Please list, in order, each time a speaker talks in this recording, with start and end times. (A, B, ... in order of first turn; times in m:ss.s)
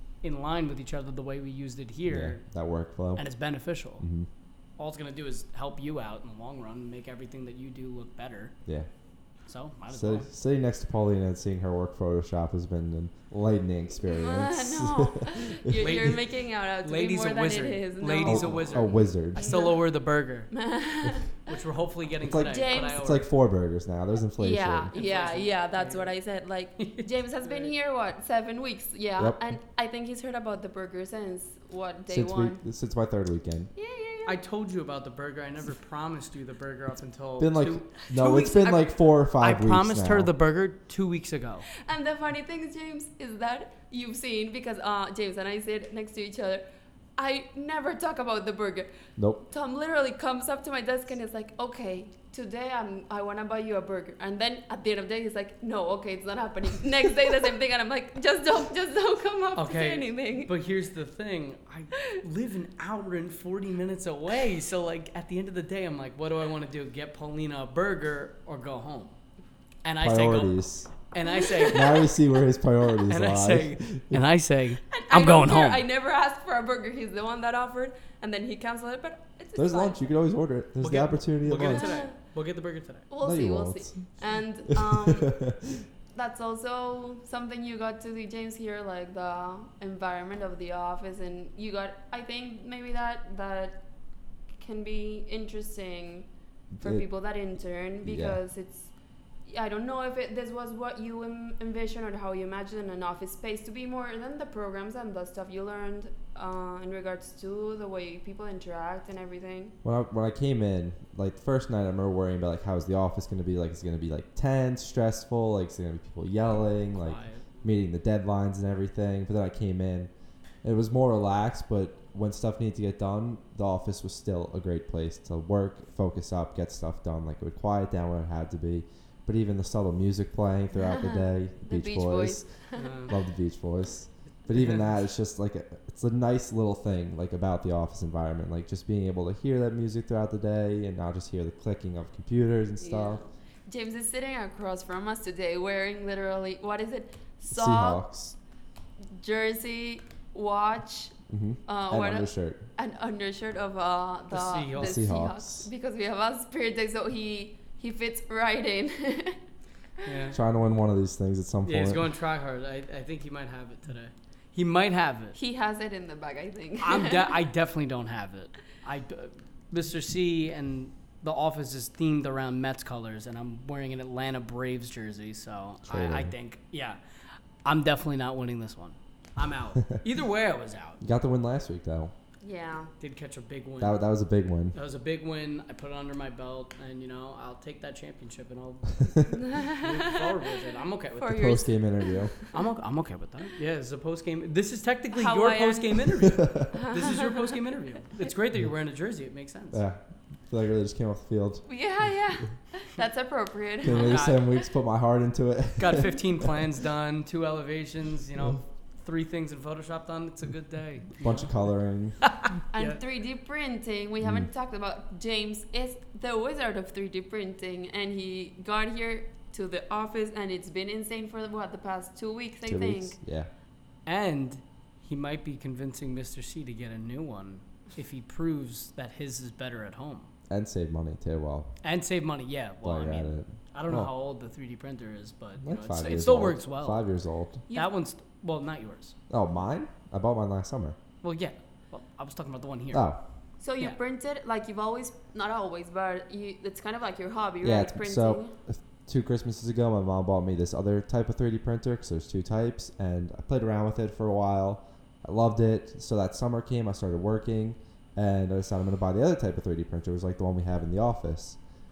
0:00.2-0:02.4 A
0:02.1-0:03.3 B
0:03.2-0:04.1 A
0:04.0-0:04.3 B
0:04.8-0:08.6 A
0:09.5-0:10.3 A
0:09.9-0:15.6 B
0:14.0-0:20.0 C
0:15.8-0:16.3 A
0:16.8-0:20.7 A
0:18.2-0:19.6 B
0:20.5-0:21.5 C
0:21.4-0:23.3 A
0:22.2-0:24.9 B
0:22.4-0:23.0 C
0:24.4-0:32.6 C
0:24.9-0:26.1 A
0:26.8-0:27.7 A
0:32.1-0:33.7 B
0:33.7-0:34.4 C
0:34.2-0:41.7 A
0:37.4-0:40.3 B
0:41.8-0:46.6 C
0:47.2-1:00.5 C
0:49.2-0:49.4 B
0:59.6-1:09.2 A
1:09.8-1:10.6 A
1:10.0-1:10.9 B
1:11.1-1:12.0 A
1:11.2-1:12.1 C
1:11.7-1:14.2 B
1:13.1-1:15.8 A
1:14.9-1:20.0 C
1:19.6-1:21.9 B
1:20.8-1:23.1 A
1:21.6-1:22.1 C
1:23.1-1:25.4 C
1:23.2-1:24.1 B
1:24.7-1:25.8 B
1:26.1-1:33.8 C
1:34.5-1:36.3 C
1:36.7-1:37.0 B
1:36.8-1:38.9 C
1:38.0-1:38.4 B
1:39.4-1:49.8 C
1:49.8-2:00.1 B
1:56.9-1:57.6 A
2:00.6-2:23.2 B
2:10.9-2:13.1 C
2:12.8-2:13.2 A
2:14.5-2:14.9 A
2:22.8-2:28.0 C
2:27.5-2:28.4 B
2:29.1-2:39.4 C
2:31.3-2:32.7 B
2:34.3-2:35.0 A
2:34.8-2:35.7 B
2:40.0-2:40.3 C
2:40.0-2:40.4 A
2:40.3-2:42.0 B
2:41.6-2:45.4 A
2:45.3-2:47.4 C
2:46.8-2:57.0 A
2:55.8-2:56.3 B
2:57.6-3:01.0 A
3:01.0-3:02.1 B
3:02.4-3:02.9 C
3:03.0-3:04.0 A
3:03.8-3:04.8 B
3:04.7-3:11.6 A
3:09.3-3:10.2 C
3:11.2-3:12.6 C
3:11.3-3:12.4 B
3:12.5-3:19.8 A
3:15.1-3:16.1 C
3:16.7-3:17.2 C
3:19.7-3:21.7 B
3:21.7-3:24.3 C
3:23.8-3:26.6 B
3:23.8-3:24.4 A
3:25.8-3:31.7 A
3:31.2-3:32.3 B
3:32.3-3:33.0 A
3:32.7-3:43.2 C
3:34.2-3:34.5 B
3:42.6-3:43.5 B
3:44.0-3:50.3 A
3:50.5-3:51.7 B
3:51.8-3:57.0 A
3:52.8-3:54.1 B
3:55.6-3:57.6 B
3:57.7-3:59.1 A
3:59.3-4:01.0 B
4:01.2-4:03.1 A
4:02.9-4:03.2 B
4:03.6-4:08.5 C
4:07.6-4:21.6 B